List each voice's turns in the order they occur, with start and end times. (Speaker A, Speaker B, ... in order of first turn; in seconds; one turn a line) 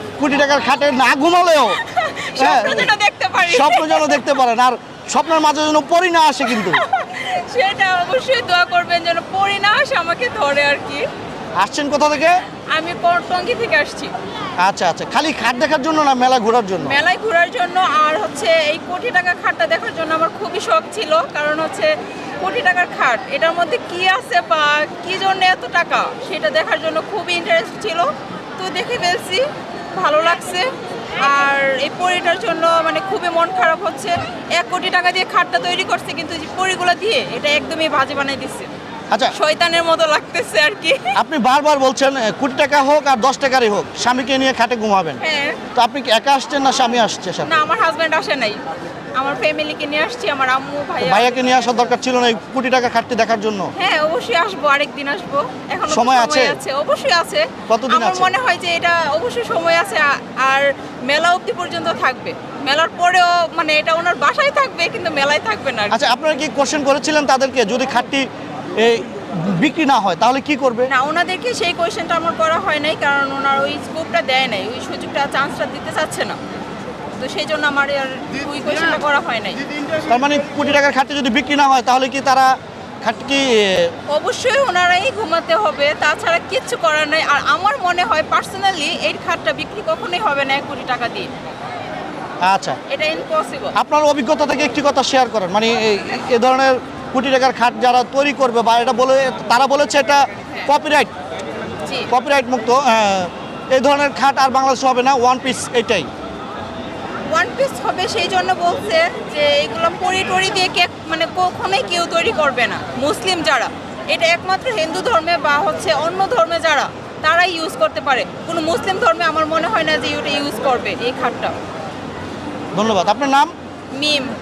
Speaker A: 0.2-1.8
Speaker B: 1.8-4.2
Speaker A: 2.4-2.9
Speaker A: 3.4-6.8
Speaker B: 6.5-11.1
Speaker A: 11.6-12.3
Speaker B: 12.7-14.1
Speaker A: 14.6-17.0
Speaker B: 16.8-30.7
Speaker B: 31.2-38.7
Speaker B: 39.3-41.1
Speaker A: 41.1-45.2
Speaker B: 45.2-45.6
Speaker A: 45.7-47.6
Speaker B: 47.5-48.6
Speaker B: 49.1-51.5
Speaker A: 51.0-53.7
Speaker B: 53.7-66.0
Speaker A: 55.9-56.5
Speaker A: 57.7-58.3
Speaker A: 65.9-70.9
Speaker B: 70.9-76.4
Speaker B: 77.2-79.6
Speaker A: 80.1-83.9
Speaker B: 84.1-91.3
Speaker A: 92.4-92.8
Speaker B: 92.9-93.8
Speaker A: 93.8-101.1
Speaker B: 101.8-102.1
Speaker A: 102.1-106.1
Speaker B: 107.3-121.5
Speaker A: 122.7-123.5
Speaker B: 123.9-124.3